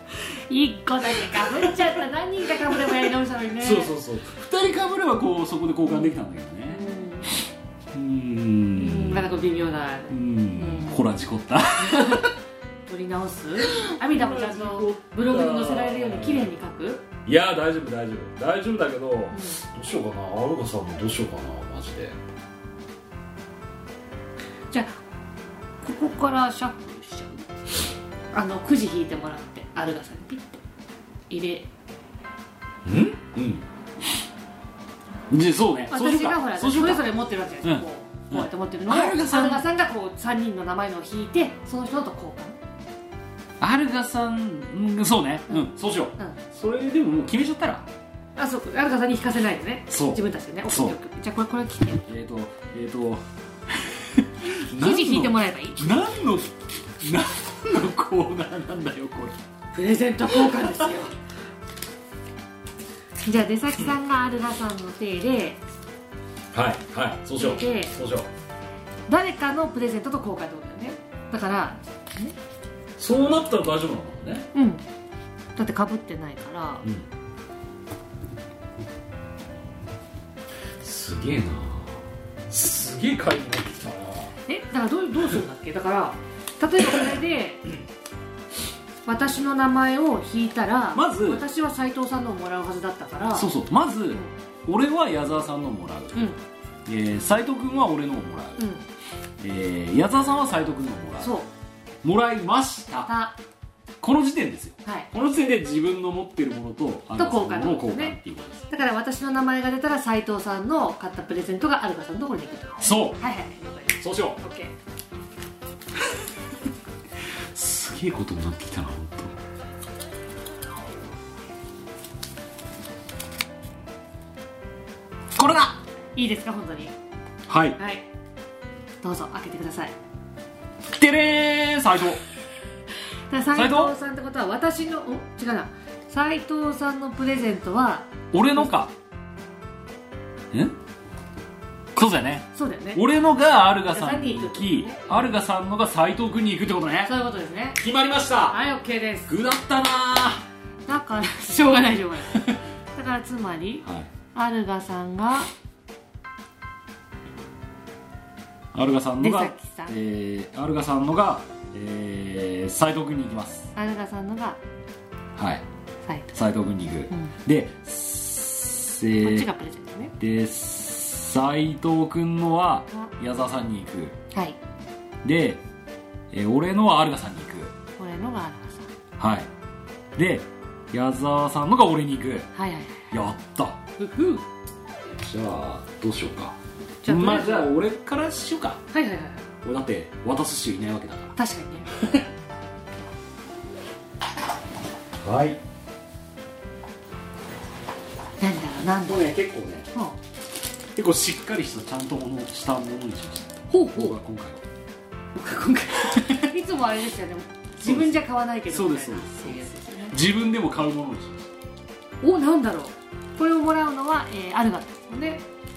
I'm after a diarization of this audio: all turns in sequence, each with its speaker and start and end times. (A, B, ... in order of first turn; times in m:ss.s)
0:00.5-0:03.9 A
0:01.1-0:02.0 B
0:02.7-0:09.4 B
0:06.7-0:07.3 A
0:08.7-0:11.0 A
0:10.1-0:12.4 B
0:11.8-0:12.3 A
0:12.9-0:17.0 A
0:13.6-0:16.5 B
0:17.2-0:22.2 B
0:19.3-0:19.6 A
0:24.7-0:25.0 A
0:25.8-0:27.5 A
0:28.3-0:30.6 A
0:31.3-0:31.7 A
0:32.8-0:33.7 B
0:35.3-0:39.7 B
0:35.9-0:42.6 A
0:43.6-0:47.9 B
0:45.5-0:46.4 A
0:48.4-0:52.1 A
0:49.9-0:51.0 B
0:52.1-0:59.4 B
0:54.7-0:56.0 A
0:59.7-1:01.2 A
1:00.5-1:00.8 B
1:03.2-1:05.6 A
1:06.5-1:08.3 B
1:07.4-1:07.9 A
1:09.1-1:12.3 A
1:13.0-1:14.5 B
1:14.5-1:14.8 A
1:15.6-1:16.9 A
1:20.8-1:24.3 B
1:24.5-1:27.7 A
1:29.1-1:33.5 A
1:30.9-1:31.4 B
1:33.3-1:36.3 B
1:36.9-1:38.6 B
1:38.6-1:38.8 A
1:39.4-1:41.3 B
1:41.2-1:41.5 A
1:42.0-1:43.1 B
1:43.1-1:43.4 A
1:44.0-1:48.7 B
1:44.8-1:45.1 A
1:47.2-1:48.2 A
1:48.7-1:54.7 A
1:52.8-1:53.2 B
1:54.0-1:54.4 B
1:57.5-1:59.4 B
2:05.4-2:05.8 B
2:06.2-2:07.0 A
2:07.5-2:07.8 B
2:07.8-2:08.1 A
2:09.0-2:10.0 A
2:10.9-2:12.2 B
2:13.3-2:18.7 A
2:13.5-2:13.9 B
2:18.3-2:18.9 B
2:20.5-2:20.8 B
2:21.9-2:27.1 B
2:22.5-2:23.0 A
2:23.9-2:25.3 A
2:27.0-2:27.8 A
2:27.8-2:28.6 B
2:28.5-2:29.4 A
2:29.3-2:30.4 B
2:30.9-2:35.5 A
2:32.3-2:32.6 B
2:33.8-2:34.1 B
2:38.7-2:43.7 B
2:39.2-2:40.0 A
2:43.8-2:44.6 A
2:45.4-2:45.6 B
2:46.0-2:46.3 A
2:46.3-2:49.5 B
2:49.2-2:50.1 A
2:50.2-2:54.2 B
2:54.3-2:54.6 A
2:55.2-2:55.6 B
2:56.3-2:57.7 B
2:58.0-2:58.9 A
2:59.2-2:59.5 B
3:00.2-3:02.5 B
3:02.5-3:03.1 A
3:03.1-3:03.8 B
3:04.0-3:04.4 A
3:05.1-3:08.8 B
3:07.0-3:07.7 A
3:08.9-3:09.5 A
3:09.6-3:11.4 B
3:11.4-3:11.9 A
3:12.0-3:12.2 B
3:15.2-3:15.6 B
3:18.4-3:19.3 A
3:19.0-3:19.9 B
3:20.9-3:24.7 B
3:23.7-3:24.2 A
3:25.4-3:30.2 A
3:26.1-3:26.4 B
3:27.8-3:31.5 B
3:32.2-3:35.4 A